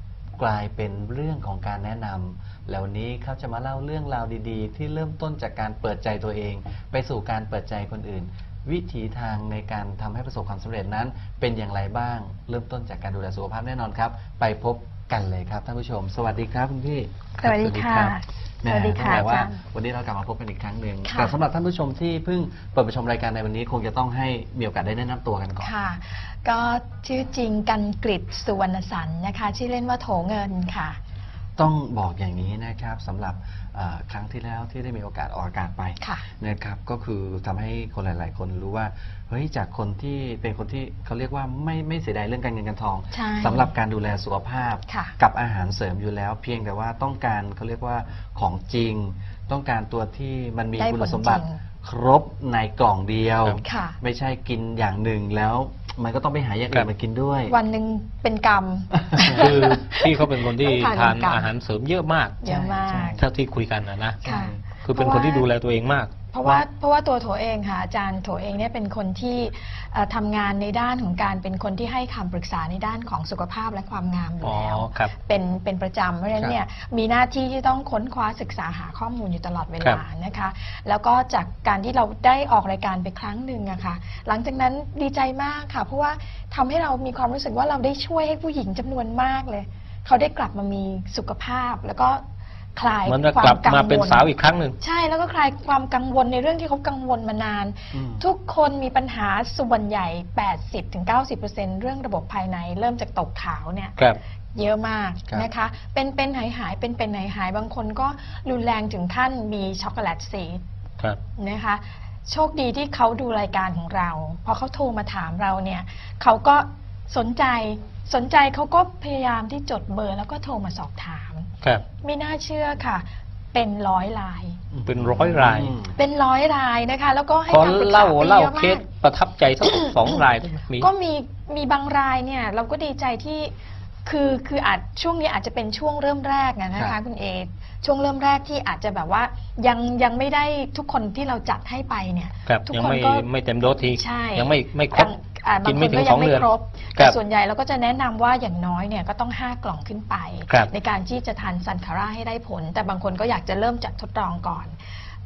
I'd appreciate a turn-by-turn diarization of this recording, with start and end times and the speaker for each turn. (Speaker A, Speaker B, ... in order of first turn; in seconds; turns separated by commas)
Speaker A: 0.4-25.7, Speaker B: 17.4-19.6, Speaker B: 21.1-21.4, Speaker B: 25.6-31.0, Speaker A: 31.6-57.5, Speaker B: 36.0-36.2, Speaker B: 43.1-43.7, Speaker B: 44.9-45.2, Speaker B: 50.8-51.6, Speaker B: 53.6-54.0, Speaker B: 57.5-61.5, Speaker A: 59.0-59.4, Speaker C: 59.3-62.4, Speaker B: 62.4-63.2, Speaker A: 62.4-63.2, Speaker C: 63.2-64.2, Speaker A: 64.2-64.6, Speaker B: 64.2-65.5, Speaker C: 64.8-66.1, Speaker B: 66.3-92.2, Speaker C: 74.4-75.1, Speaker B: 92.8-104.0, Speaker C: 93.1-94.8, Speaker A: 97.9-98.2, Speaker B: 104.5-110.6, Speaker B: 111.4-121.5, Speaker B: 122.0-124.6, Speaker A: 124.7-126.0, Speaker C: 124.9-125.7, Speaker B: 126.0-128.9, Speaker C: 127.5-130.9, Speaker B: 129.6-130.2, Speaker B: 130.8-133.5, Speaker B: 134.1-143.3, Speaker C: 142.5-145.1, Speaker B: 143.8-154.8, Speaker C: 145.6-147.2